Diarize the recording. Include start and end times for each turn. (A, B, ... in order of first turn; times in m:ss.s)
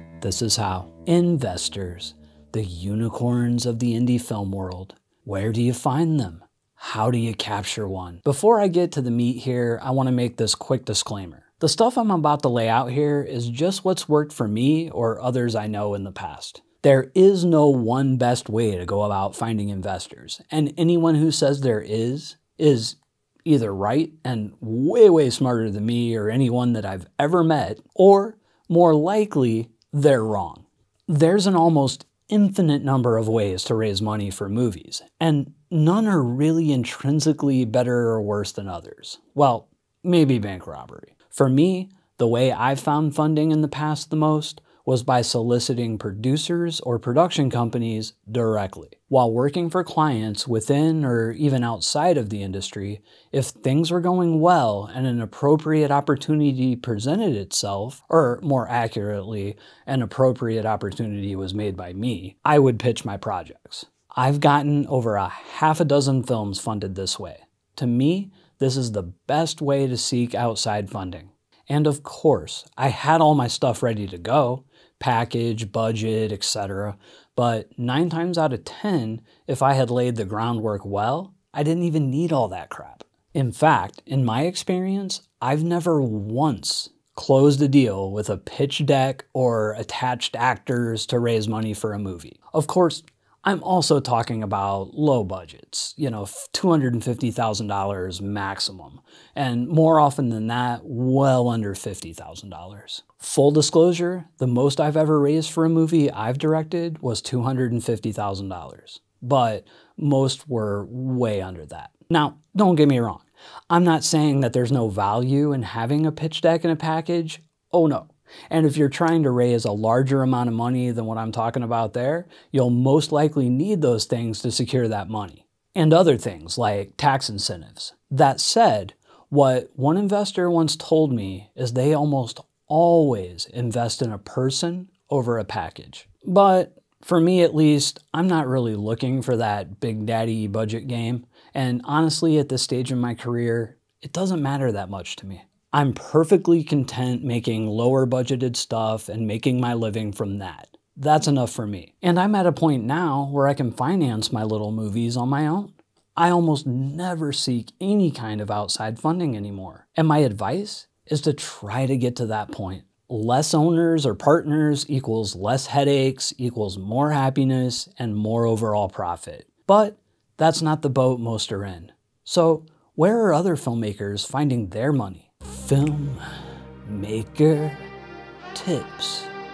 0:00.2-2:56.2 A
2:56.8-2:57.9 A
2:58.5-2:59.3 A